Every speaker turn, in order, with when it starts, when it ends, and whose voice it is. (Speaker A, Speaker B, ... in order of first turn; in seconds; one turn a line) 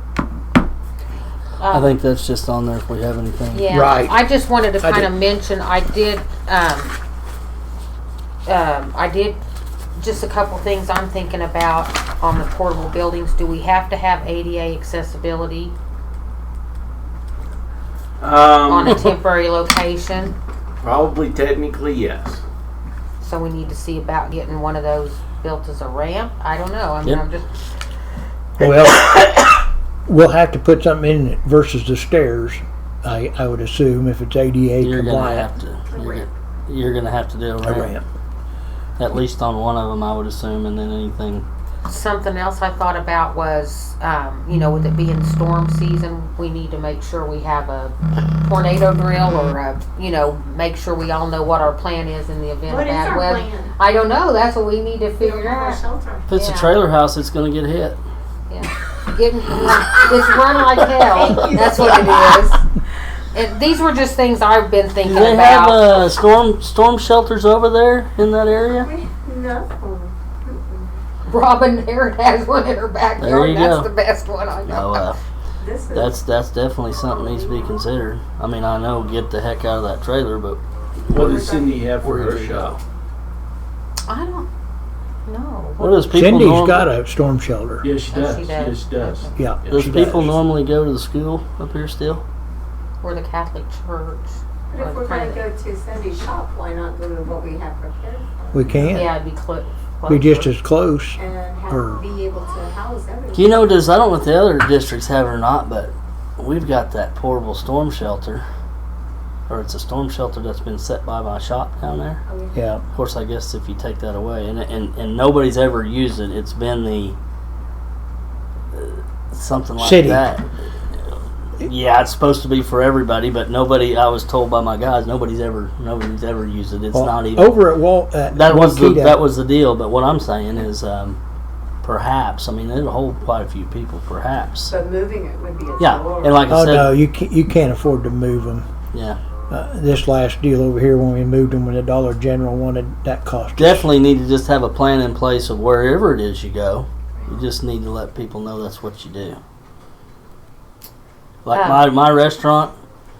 Speaker A: 1.6-1.9
Speaker B: 1.7-3.7
Speaker A: 3.5-7.0
Speaker C: 3.7-4.1
Speaker C: 4.8-5.1
Speaker A: 8.4-9.4
Speaker A: 9.9-15.7
Speaker D: 18.2-19.0
Speaker A: 18.6-20.4
Speaker D: 20.8-22.4
Speaker A: 23.2-27.5
Speaker C: 28.6-35.5
Speaker B: 34.8-37.9
Speaker E: 35.9-36.3
Speaker C: 37.6-38.0
Speaker B: 39.0-41.5
Speaker A: 41.9-55.8
Speaker E: 52.6-53.7
Speaker E: 55.2-56.3
Speaker B: 56.3-58.0
Speaker A: 56.3-56.8
Speaker A: 58.5-62.6
Speaker E: 61.0-62.5
Speaker A: 63.3-66.0
Speaker B: 65.0-68.9
Speaker E: 68.8-71.0
Speaker A: 71.2-75.1
Speaker B: 73.2-73.9
Speaker B: 74.6-75.2
Speaker E: 75.6-76.1
Speaker B: 75.9-81.5
Speaker E: 77.2-77.6
Speaker D: 81.1-82.8
Speaker E: 81.2-81.9
Speaker B: 82.0-82.8
Speaker A: 84.0-84.5
Speaker A: 85.2-86.0
Speaker B: 85.8-86.9
Speaker C: 86.0-87.9
Speaker D: 87.8-90.0
Speaker A: 88.0-89.3
Speaker C: 89.3-90.3
Speaker B: 89.7-92.2
Speaker A: 93.0-95.5
Speaker E: 94.7-98.4
Speaker C: 98.5-99.1
Speaker D: 98.7-99.0
Speaker A: 98.9-100.5
Speaker C: 100.1-102.0
Speaker E: 101.2-103.5
Speaker B: 103.3-108.4
Speaker B: 109.5-112.2
Speaker E: 112.3-112.6
Speaker C: 112.5-112.8
Speaker B: 112.9-117.2
Speaker B: 118.7-120.5
Speaker C: 119.8-120.3
Speaker B: 121.0-127.6
Speaker C: 126.9-129.2
Speaker B: 128.3-131.2
Speaker B: 131.8-134.8
Speaker E: 134.7-136.4
Speaker B: 135.8-136.9
Speaker C: 136.5-138.7
Speaker B: 138.9-139.2
Speaker C: 139.5-143.9
Speaker B: 143.6-149.4
Speaker B: 151.4-152.7
Speaker A: 151.5-151.9